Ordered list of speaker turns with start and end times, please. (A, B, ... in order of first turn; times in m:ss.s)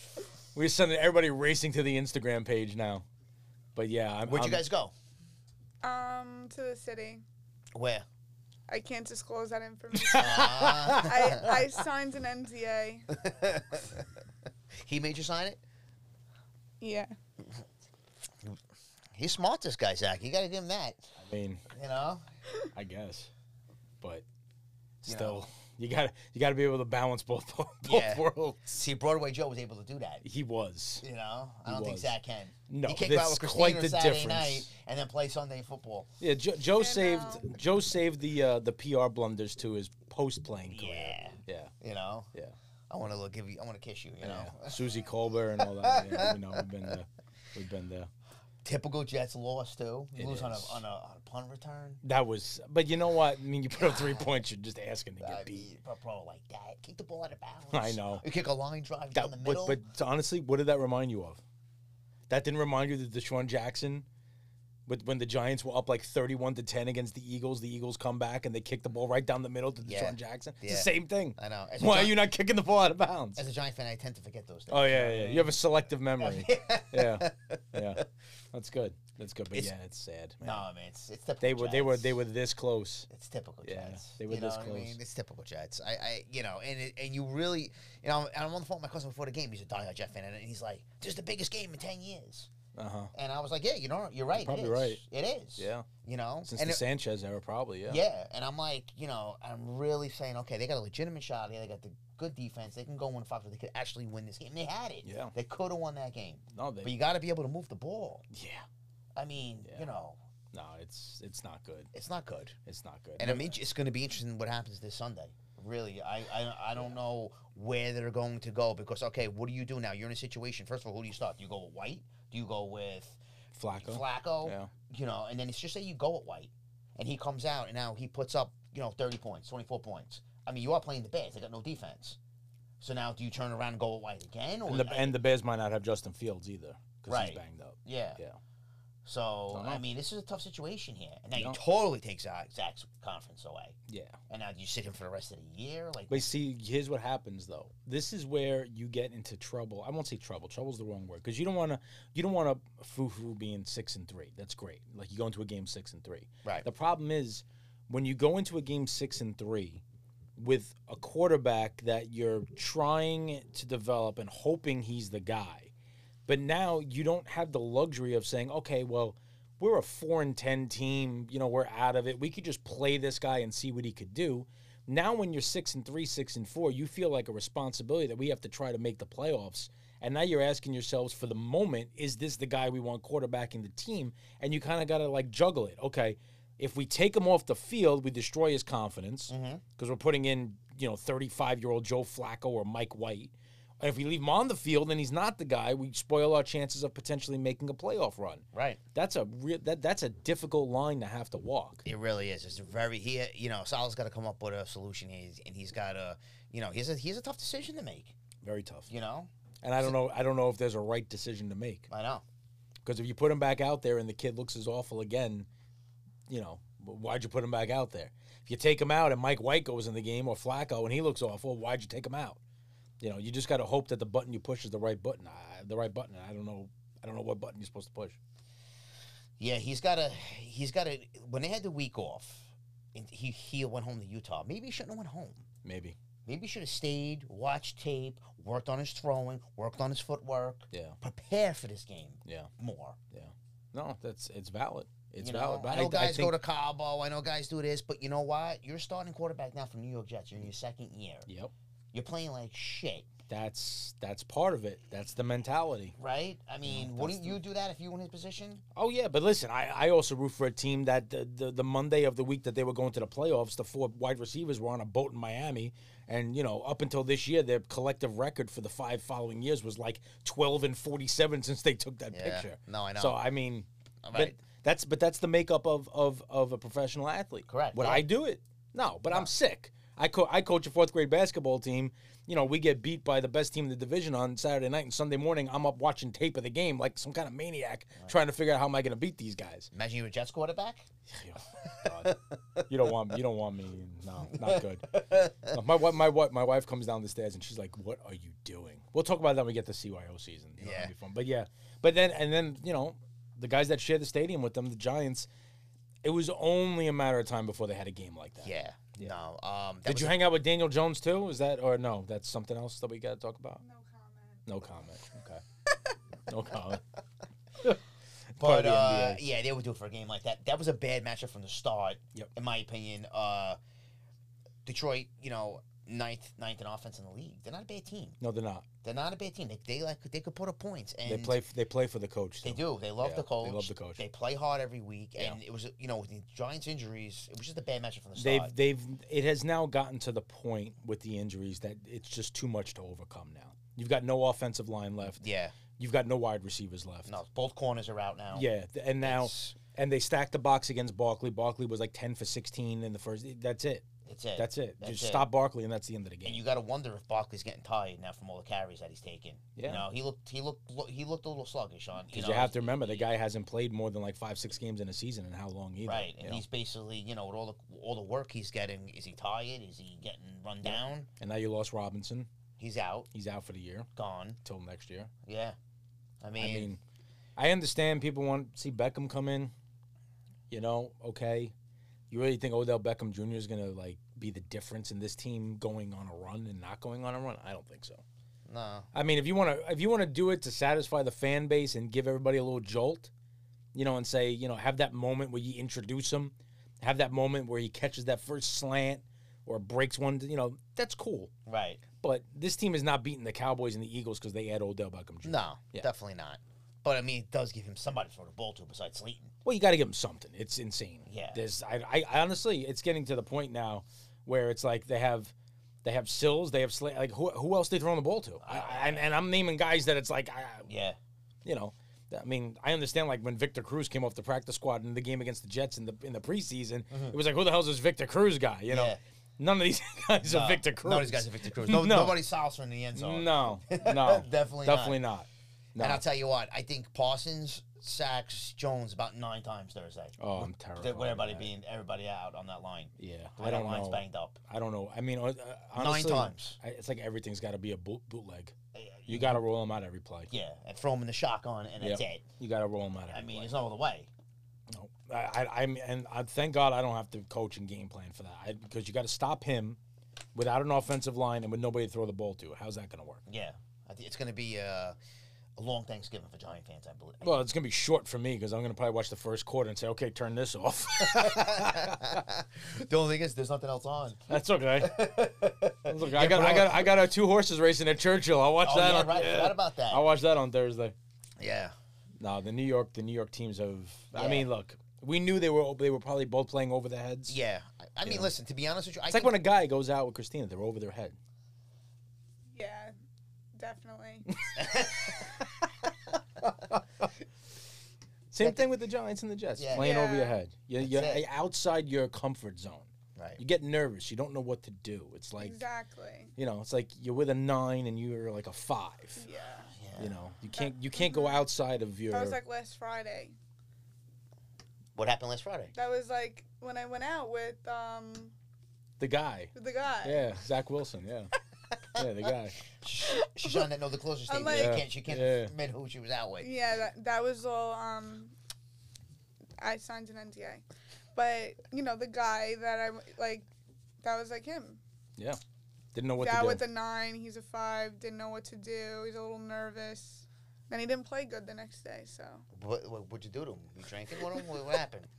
0:00.6-0:03.0 A
0:03.8-0:04.7 A
0:04.3-0:04.9 B
0:05.8-0:07.2 C
0:07.8-0:08.1 B
0:08.7-0:13.1 C
0:09.9-0:11.5 A
0:10.1-0:11.7 B
0:13.2-0:14.1 B
0:14.8-0:15.6 B
0:16.8-0:17.1 C
0:19.2-0:21.1 B
0:21.2-0:21.6 A
0:21.7-0:22.2 B
0:22.7-0:23.3 A
0:25.0-0:25.4 B
0:25.1-0:28.8 A
0:27.8-0:30.2 B
0:30.2-0:31.0 A
0:31.0-0:36.1 B
0:31.7-0:32.1 A
0:32.7-0:34.7 A
0:36.2-0:41.7 A
0:36.8-0:37.5 C
0:40.7-0:42.3 B
0:42.9-0:44.9 B
0:44.2-0:48.1 A
0:45.6-0:46.7 B
0:48.6-0:52.0 B
0:50.2-0:50.8 A
0:52.0-0:55.7 A
0:53.8-0:54.4 B
0:55.2-0:59.8 B
0:57.7-0:58.2 A
0:59.1-1:01.4 A
1:02.3-1:04.0 A
1:04.9-1:13.4 A
1:09.8-1:12.2 B
1:13.4-1:15.6 B
1:14.7-1:20.6 A
1:16.2-1:18.0 B
1:20.4-1:22.2 B
1:21.4-1:23.1 A
1:23.1-1:32.5 B
1:23.6-1:25.0 A
1:32.8-1:33.1 A
1:33.1-1:36.8 B
1:34.4-1:35.0 A
1:35.6-1:35.9 A
1:36.5-1:38.0 A
1:37.9-1:48.3 B
1:45.0-1:45.3 A
1:46.5-1:46.9 A
1:48.3-1:48.6 A
1:49.2-1:50.2 B
1:50.5-1:51.9 A
1:51.9-1:52.6 B
1:52.7-1:53.6 A
1:53.2-2:03.2 B
2:03.6-2:04.7 A
2:03.8-2:12.2 B
2:12.8-2:15.2 B
2:14.7-2:18.4 A
2:17.1-2:18.2 B
2:19.0-2:23.8 B
2:19.5-2:19.8 A
2:23.9-2:24.2 A
2:24.3-2:26.3 B
2:26.1-2:39.8 A
2:40.4-2:45.7 A
2:46.3-3:21.8 A
3:09.3-3:09.6 B
3:18.5-3:18.8 B
3:21.8-3:28.2 B
3:28.4-3:28.9 A
3:28.9-3:30.0 B
3:29.6-3:31.9 A
3:31.9-3:32.2 B
3:32.8-3:35.5 A
3:36.3-3:42.4 A
3:43.0-3:48.2 A
3:49.4-3:55.4 B
3:55.6-3:56.0 A
3:56.3-4:03.0 B
4:00.7-4:01.0 A
4:03.1-4:06.4 A
4:05.2-4:11.3 B
4:11.3-4:11.5 A
4:11.9-4:13.1 B
4:13.3-4:16.0 A
4:16.0-4:18.6 B
4:16.6-4:17.4 A
4:18.8-4:49.7 A
4:32.1-4:33.2 B
4:34.0-4:34.4 B
4:37.5-4:38.0 B
4:49.7-4:50.9 B
4:51.1-5:05.3 A
4:51.6-4:52.7 B
4:54.3-4:55.6 B
5:00.6-5:00.9 B
5:06.0-5:09.1 A
5:08.4-5:10.2 B
5:09.9-5:13.6 A
5:13.6-5:14.4 C
5:14.5-5:15.4 A
5:16.3-5:16.8 A
5:18.4-5:19.2 A
5:18.4-5:23.6 B
5:24.6-5:28.2 B
5:28.2-5:28.7 A
5:28.8-5:31.4 B
5:31.0-5:34.0 A
5:32.4-5:38.5 B
5:38.2-5:45.2 A
5:45.1-5:45.6 B
5:45.8-5:47.2 A
5:47.1-5:48.5 B
5:48.3-5:53.8 A
5:49.0-5:49.6 B
5:54.0-5:55.3 B
5:54.4-5:56.4 A
5:56.2-6:03.1 B
5:59.6-5:59.8 A
6:02.1-6:06.4 A
6:05.9-6:11.1 B
6:10.7-6:12.3 A
6:12.6-6:13.1 B
6:13.1-6:13.9 A
6:14.0-6:14.4 B
6:14.4-6:15.1 A
6:15.2-6:15.6 B
6:16.2-6:16.7 B
6:16.4-6:16.8 A
6:17.4-6:19.5 A
6:20.5-6:21.5 A
6:22.1-6:28.0 A
6:28.5-6:28.9 B
6:28.9-6:33.1 A
6:33.7-6:41.3 A
6:41.5-6:41.8 B
6:42.0-6:45.9 A
6:45.2-6:49.3 B
6:49.4-6:55.3 A
6:51.1-6:51.4 B
6:55.8-7:00.7 A
6:58.4-6:59.2 B
7:00.7-7:01.0 B
7:01.4-7:12.2 A
7:06.9-7:07.2 B
7:08.7-7:09.0 B
7:10.2-7:15.0 B
7:12.9-7:16.0 A
7:15.8-7:24.4 B
7:20.2-7:21.5 A
7:23.0-7:28.5 A
7:25.8-7:26.6 B
7:28.7-7:29.4 B
7:29.1-7:30.3 A
7:30.3-7:32.3 B
7:31.8-7:33.5 A
7:33.1-7:34.1 B
7:34.7-7:39.8 A
7:40.4-7:43.2 A
7:43.3-7:45.0 B
7:45.6-7:47.5 B
7:47.2-7:52.2 A
7:51.0-7:57.0 B
7:54.3-7:55.1 A
7:55.8-8:01.0 A
7:58.6-8:00.0 B
8:01.4-8:01.8 B
8:02.2-8:07.4 A
8:04.1-8:04.5 B
8:07.3-8:09.4 B
8:08.0-8:08.3 A
8:09.1-8:11.2 A
8:12.5-8:12.9 C
8:13.6-8:14.3 C
8:14.3-8:15.7 A
8:14.6-8:15.3 B
8:16.7-8:17.1 A
8:18.3-8:25.6 A
8:18.4-8:18.7 B
8:19.6-8:19.9 B
8:19.8-8:20.4 C
8:20.8-8:21.2 B
8:23.2-8:23.4 B
8:25.4-8:26.3 C
8:26.4-8:29.2 A
8:29.2-8:29.7 C
8:29.8-8:30.1 B
8:30.0-8:32.4 A
8:30.5-8:31.5 C
8:32.1-8:33.4 C
8:35.0-8:35.7 B
8:35.8-8:38.3 C
8:39.0-8:39.5 A
8:39.6-8:40.3 C
8:40.0-8:41.3 A
8:41.9-8:42.6 A
8:42.8-8:46.5 B
8:43.1-8:43.7 C
8:44.3-8:44.8 C
8:44.5-8:45.5 A
8:46.4-8:48.3 C
8:49.6-8:53.5 C
8:54.0-8:54.8 C
8:55.9-8:56.6 A
8:56.2-9:02.4 C
9:02.5-9:05.1 B